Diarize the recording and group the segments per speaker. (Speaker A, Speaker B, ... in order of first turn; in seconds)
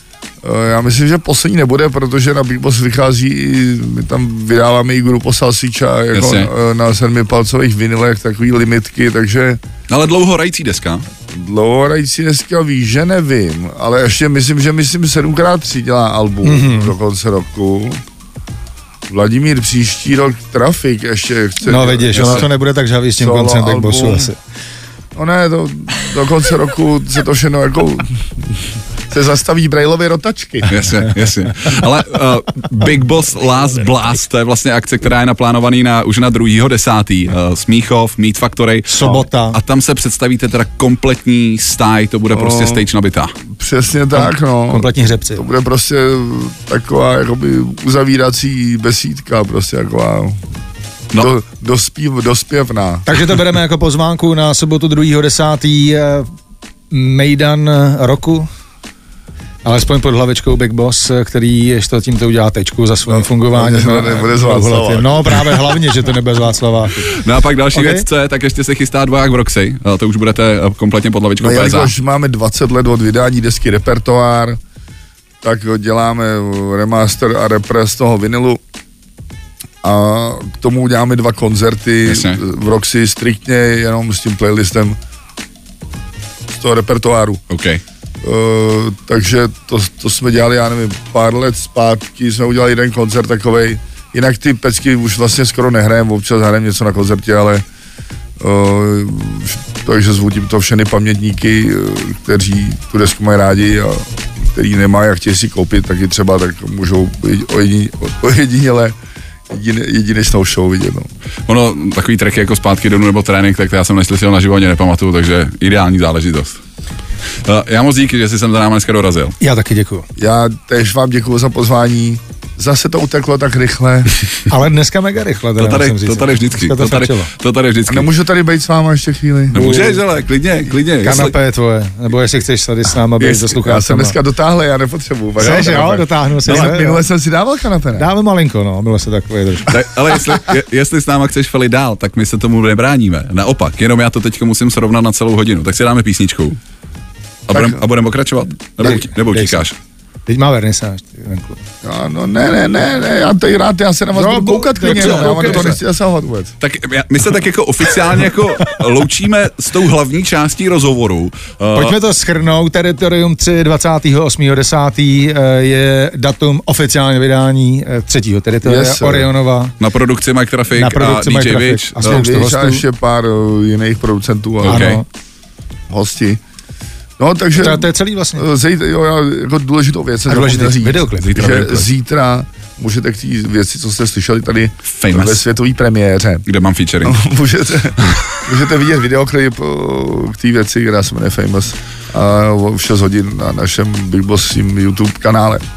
Speaker A: 0.4-9.6, 11.3-18.0, 19.1-22.5, 23.2-24.3, 25.1-30.7, 42.3-42.8, 43.5-50.4, 51.1-53.1, 63.1-65.5, 71.4-74.6, 75.4-78.6, 79.8-85.0, 86.5-87.4, 88.2-97.6, 98.4-109.0, 109.5-111.1, 120.2-124.2, 127.9-129.6, 133.2-138.1, 147.5-147.8, 151.8-156.5, 168.6-169.3, 172.0-175.0, 175.9-176.4, 177.2-186.4, 187.0-195.6
Speaker B: 6.1-6.5, 9.9-11.1, 22.1-22.5, 30.7-43.3, 67.0-71.9, 82.1-82.4, 87.5-87.8, 111.5-116.6, 117.4-119.3, 125.5-128.1, 129.5-131.3, 135.4-136.7, 139.7-146.6, 147.5-149.7, 154.9-155.8, 156.6-161.9, 169.8-172.3, 174.6-175.0, 181.2-181.7, 184.9-185.4, 186.5-187.2
Speaker C: 16.4-16.9, 21.6-24.4, 38.9-39.6, 44.1-45.4, 53.0-56.3, 56.9-58.5, 59.6-67.2, 67.7-68.0, 119.4-120.0, 124.5-127.3, 129.5-130.0, 131.0-134.2, 135.4-137.0, 137.9-139.7, 148.8-149.6, 150.3-151.6, 154.1-155.8, 161.7-169.7, 170.7-172.8, 174.7-175.0, 177.6-178.5, 180.3-181.8